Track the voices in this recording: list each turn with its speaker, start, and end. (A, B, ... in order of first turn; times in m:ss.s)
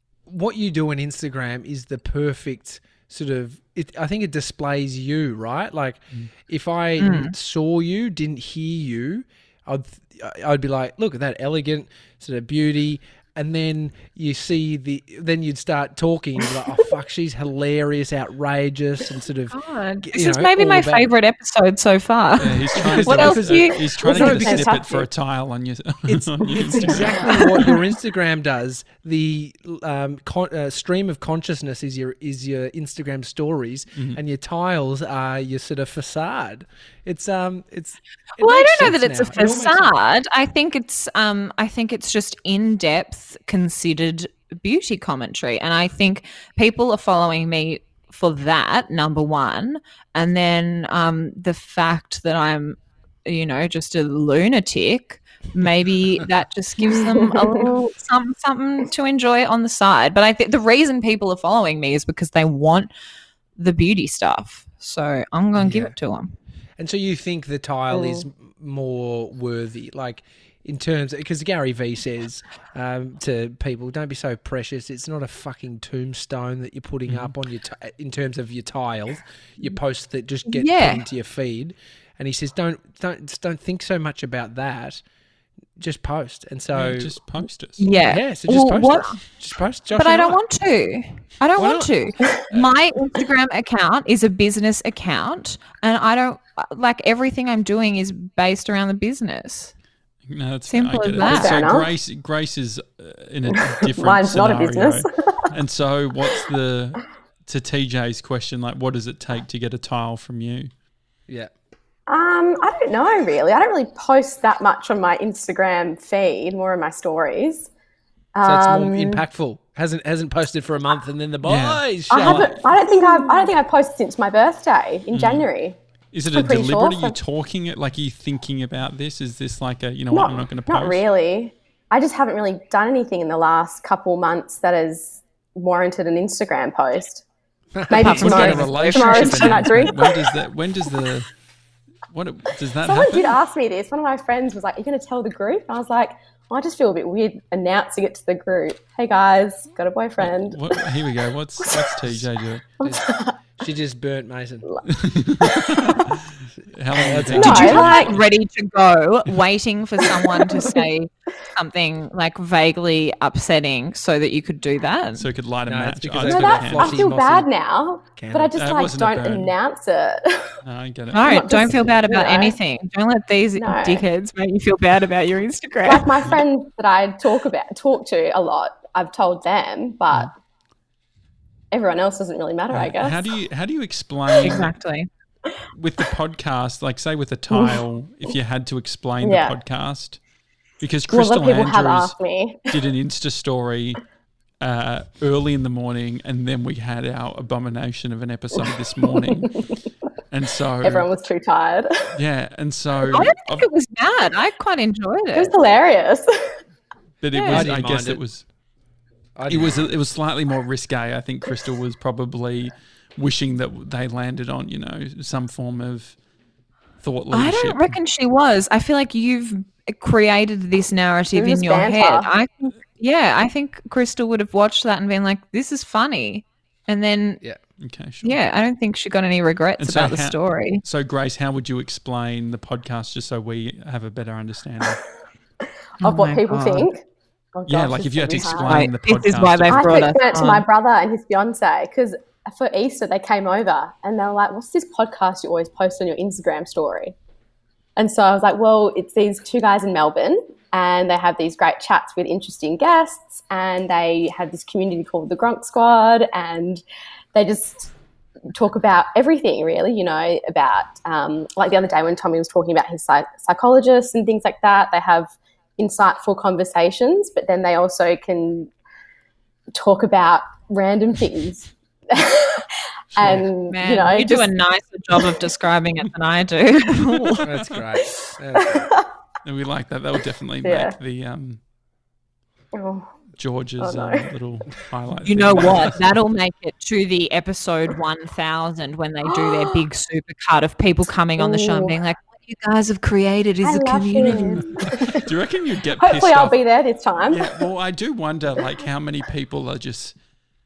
0:00.3-0:21.1 A
0:07.0-0:07.3 B
0:19.5-0:23.9 B
0:22.4-0:27.7 C
0:22.8-0:24.7 A
0:24.0-0:25.1 D
0:26.1-0:39.9 A
0:38.4-1:02.9 B
0:57.2-0:57.6 D
1:03.6-1:06.4 B
1:05.6-1:05.9 A
1:06.8-1:25.0 A
1:07.9-1:08.2 D
1:17.1-1:17.3 C
1:20.5-1:21.0 B
1:25.8-1:27.2 A
1:26.7-1:27.8 C
1:27.8-1:29.2 B
1:28.0-1:30.4 A
1:29.9-1:39.7 B
1:31.6-1:31.9 A
1:40.3-1:50.7 C
1:40.7-1:41.7 B
1:41.2-1:41.9 D
1:43.5-1:45.5 D
1:52.1-1:57.7 D
1:58.4-1:59.2 D
1:58.4-2:02.6 A
2:01.4-2:02.6 C
2:02.1-2:05.8 D
2:05.1-2:05.5 C
2:06.1-2:11.0 C
2:06.3-2:07.2 D
2:10.1-2:17.2 D
2:17.8-2:18.3 A
2:17.9-2:20.3 D
2:17.9-2:19.8 B
2:18.1-2:21.3 C
2:22.1-2:23.4 C
2:22.8-2:30.8 D
2:30.2-2:32.7 C
2:31.7-2:32.0 D
2:32.8-2:33.4 D
2:32.8-2:34.7 A
2:34.9-2:38.2 C
2:35.4-2:35.9 D
2:36.9-2:38.0 A
2:37.4-2:38.1 D
2:37.4-2:45.3 B
2:40.4-2:40.8 D
2:45.2-2:47.0 C
2:45.7-2:47.5 A
2:46.2-2:50.6 D
2:48.2-2:48.6 A
2:48.6-2:49.6 C
2:50.6-2:51.8 C
2:51.1-2:56.2 B
2:51.2-2:52.6 D
2:53.6-2:54.0 D
2:55.8-3:00.3 D
3:01.7-3:03.3 D
3:02.7-3:04.7 C
3:04.4-3:05.1 B
3:05.8-3:10.2 C
3:07.5-3:07.8 D
3:09.2-3:09.6 D
3:10.8-3:12.2 C
3:11.1-3:12.7 D
3:12.7-3:14.0 C
3:14.6-3:19.6 C
3:19.2-3:19.7 D
3:20.3-3:21.1 C
3:20.8-3:22.1 D
3:22.1-3:23.7 C
3:23.1-3:25.5 B
3:25.3-3:26.5 D
3:27.2-3:28.4 C
3:27.3-3:27.7 B
3:27.5-3:28.2 A
3:29.4-3:29.9 A
3:29.5-3:36.2 C
3:37.0-3:38.0 C
3:37.3-3:47.4 B
3:41.4-3:42.3 D
3:47.8-3:48.4 C
3:48.2-3:50.8 B
3:49.8-3:55.0 C
3:56.0-3:56.9 B
3:56.0-3:57.0 D
3:57.5-3:58.9 D
3:57.7-4:00.1 C
3:58.6-4:00.6 B
3:59.7-4:07.2 D
4:08.0-4:16.8 D
4:17.4-4:17.9 D
4:18.5-4:28.7 D
4:29.7-4:34.5 D
4:33.2-4:33.4 C
4:33.7-4:37.5 B
4:37.3-4:37.8 C
4:37.4-4:38.9 A
4:38.6-4:39.0 D
4:39.4-4:41.6 C
4:40.6-4:41.0 D
4:42.7-4:43.1 D
4:43.4-4:46.0 C
4:43.8-4:44.3 D
4:45.2-4:54.8 B
4:49.3-4:49.7 D
4:51.4-4:52.0 D
4:53.6-4:55.3 D
4:54.3-4:56.6 C
4:56.0-4:57.6 D
4:57.2-5:00.2 C